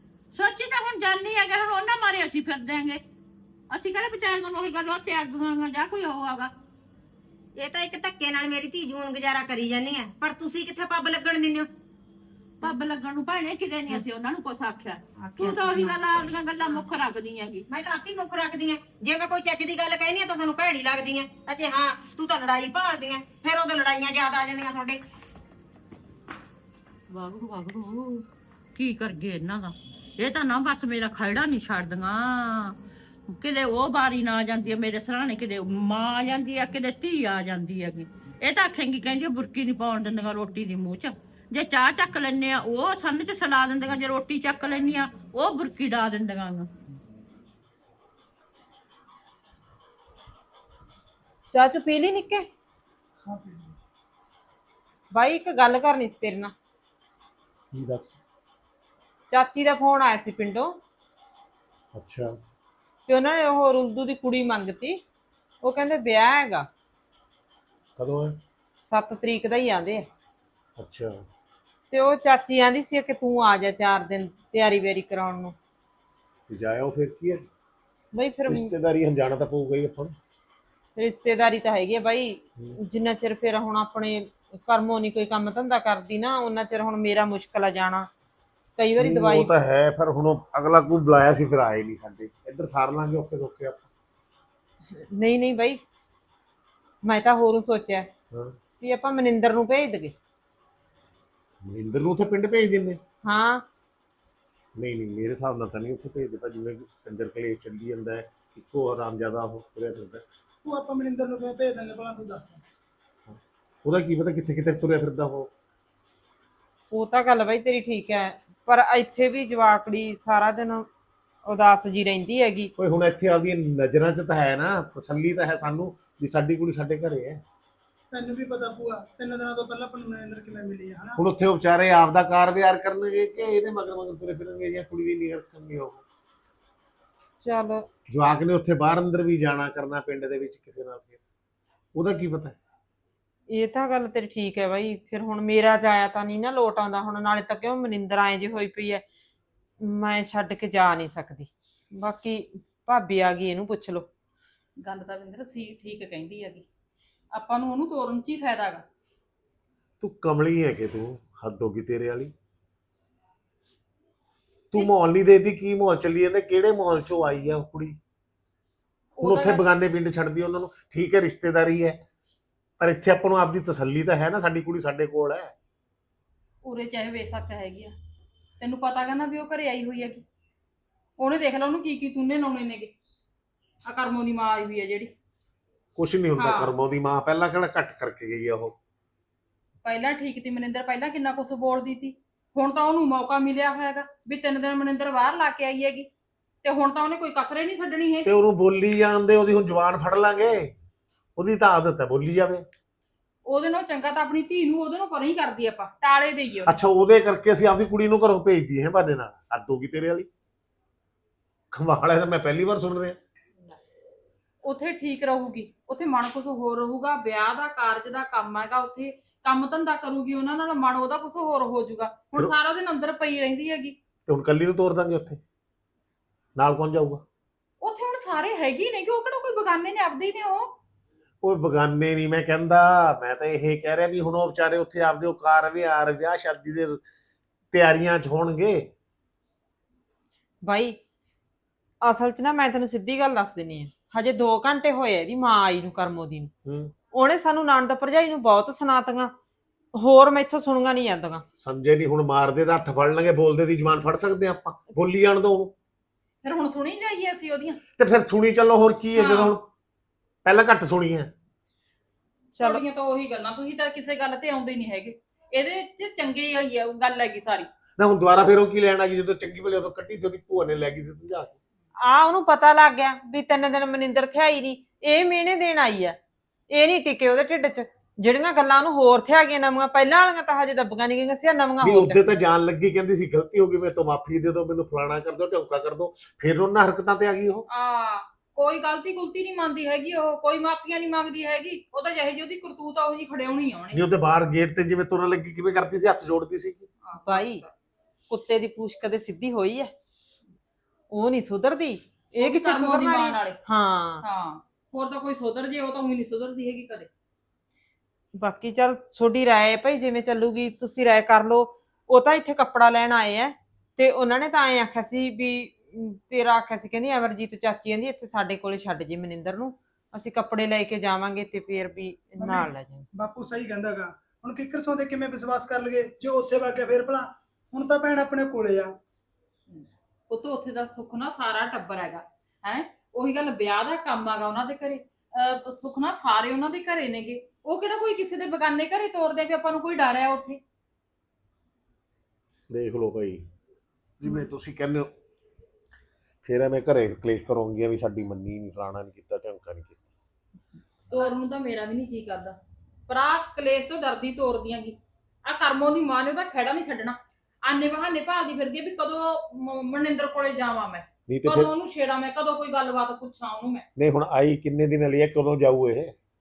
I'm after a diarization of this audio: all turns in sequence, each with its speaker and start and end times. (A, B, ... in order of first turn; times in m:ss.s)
0:00.3-0:03.0 A
0:03.7-0:06.5 A
0:07.6-0:11.7 B
0:12.6-0:17.6 A
0:15.2-0:16.0 B
0:17.7-0:25.0 B
0:27.1-0:32.7 A
0:33.3-0:46.7 A
0:51.5-0:52.5 C
0:53.2-0:53.7 D
0:55.1-0:56.5 C
0:57.7-0:58.2 E
0:59.3-1:00.8 C
1:01.9-1:02.4 E
1:03.1-1:05.0 C
1:05.6-1:06.7 C
1:08.0-1:08.4 E
1:08.8-1:10.1 C
1:10.8-1:11.2 E
1:11.9-1:15.6 C
1:16.5-1:17.4 E
1:18.1-1:18.7 C
1:18.5-1:20.2 E
1:21.0-1:28.1 C
1:28.8-1:29.5 C
1:29.0-1:33.9 E
1:34.9-1:35.8 C
1:37.0-1:38.1 C
1:38.3-1:38.6 E
1:38.8-1:40.1 C
1:41.6-1:43.0 E
1:43.2-1:43.6 C
1:44.8-1:50.2 E
1:50.6-1:52.6 D
1:53.3-1:55.5 E
1:56.9-2:00.9 C
2:01.4-2:02.7 C
2:02.8-2:07.4 E
2:08.1-2:11.2 D
2:11.2-2:16.0 E
2:17.4-2:17.9 C
2:18.1-2:21.2 E
2:21.9-2:22.6 E
2:23.5-2:29.0 C
2:29.8-2:34.1 C
2:34.8-2:36.6 F
2:37.3-2:38.8 F
2:40.0-2:42.3 E
2:44.7-2:48.0 E
2:49.2-2:49.6 F
2:49.2-2:52.0 E
2:52.8-2:55.5 E
2:56.6-2:57.9 F
2:58.6-3:00.2 F
3:01.2-3:02.9 F
3:03.9-3:05.1 F
3:06.0-3:08.7 E
3:06.4-3:06.7 F
3:09.8-3:16.1 F
3:16.6-3:18.3 F
3:18.2-3:20.7 E
3:21.4-3:22.6 E
3:23.4-3:26.8 F
3:26.6-3:30.3 E
3:31.7-3:33.2 E
3:34.6-3:43.9 F
3:44.3-3:45.4 E
3:46.6-3:47.2 E
3:47.8-3:50.7 F
3:51.4-3:57.0 E
3:57.7-3:58.9 E
4:00.6-4:01.0 C
4:02.0-4:06.5 C
4:06.6-4:06.9 E
4:07.1-4:09.3 C
4:09.9-4:11.4 C
4:11.6-4:15.7 E
4:16.4-4:17.8 F
4:18.0-4:19.7 E
4:19.2-4:19.6 F
4:20.4-4:21.3 E
4:22.5-4:22.8 C
4:22.6-4:27.7 F
4:28.0-4:31.6 E
4:32.0-4:36.2 C
4:36.7-4:42.2 C
4:41.8-4:47.6 E
4:47.7-4:54.0 F
4:53.9-4:56.9 E
4:57.0-4:57.7 F
4:57.2-4:57.6 C
4:58.3-4:59.9 C
5:01.1-5:04.2 C
5:02.4-5:03.6 F
5:04.2-5:07.1 F
5:08.4-5:23.0 C
5:22.4-5:28.9 D
5:29.7-5:40.6 F
5:42.7-5:43.4 E
5:44.2-5:45.1 E
5:46.4-5:50.0 E
5:51.1-5:52.6 F
5:53.1-6:03.8 F
6:01.3-6:01.7 E
6:04.0-6:06.1 E